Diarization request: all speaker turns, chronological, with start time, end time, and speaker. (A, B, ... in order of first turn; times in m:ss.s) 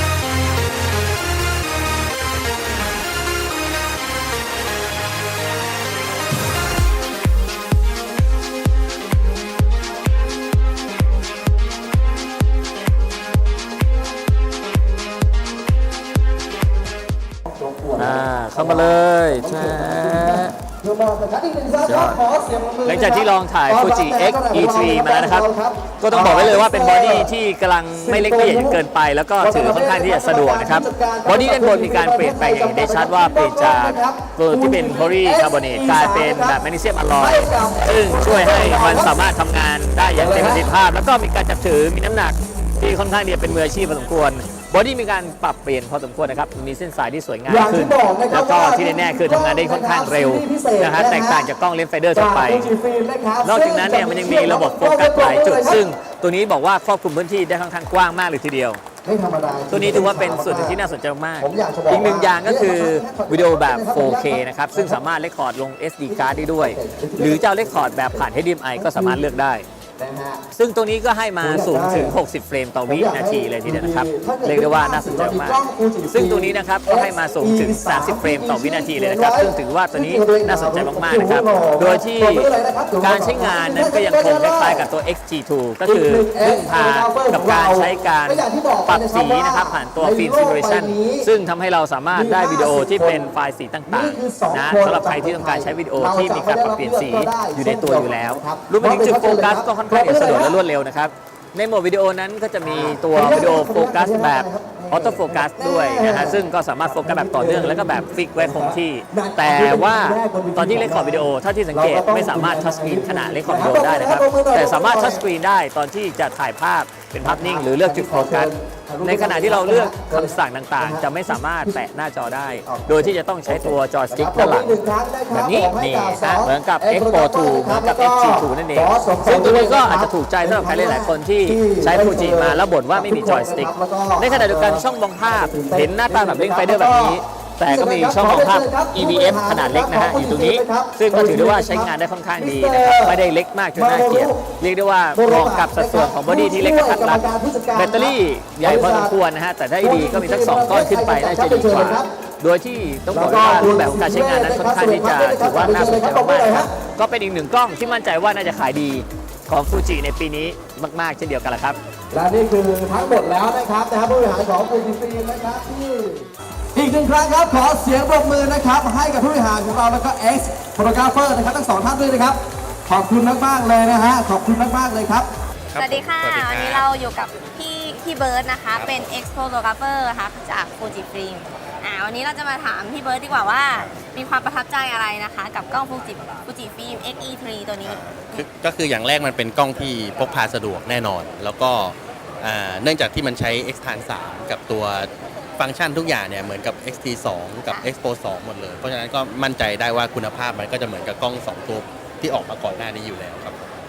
0:17.5-0:27.3 A
0:18.0-0:20.6 B
0:21.8-0:22.2 B
0:22.8-0:52.7 B
0:28.0-0:28.8 A
0:29.4-0:36.6 A
0:37.2-0:39.3 A
0:40.2-0:40.7 A
0:47.5-0:51.5 A
0:52.1-0:55.8 A
0:53.4-0:58.8 B
0:59.0-1:00.8 A
0:59.7-1:09.7 B
1:01.4-1:05.0 A
1:06.1-1:09.3 A
1:10.0-1:10.4 A
1:10.5-2:04.8 B
1:11.4-1:12.1 A
1:12.9-1:24.9 A
1:25.8-1:31.3 A
1:32.1-1:33.3 A
1:33.9-1:40.6 A
1:42.6-1:55.2 A
1:57.2-2:01.7 A
2:02.7-2:23.2 A
2:05.3-2:41.8 B
2:23.8-2:24.4 A
2:25.2-2:29.1 A
2:29.8-2:32.1 A
2:33.1-2:36.7 A
2:42.1-2:55.3 A
2:55.7-2:56.9 C
2:55.8-3:08.0 D
2:58.7-2:59.1 C
3:07.8-3:23.7 C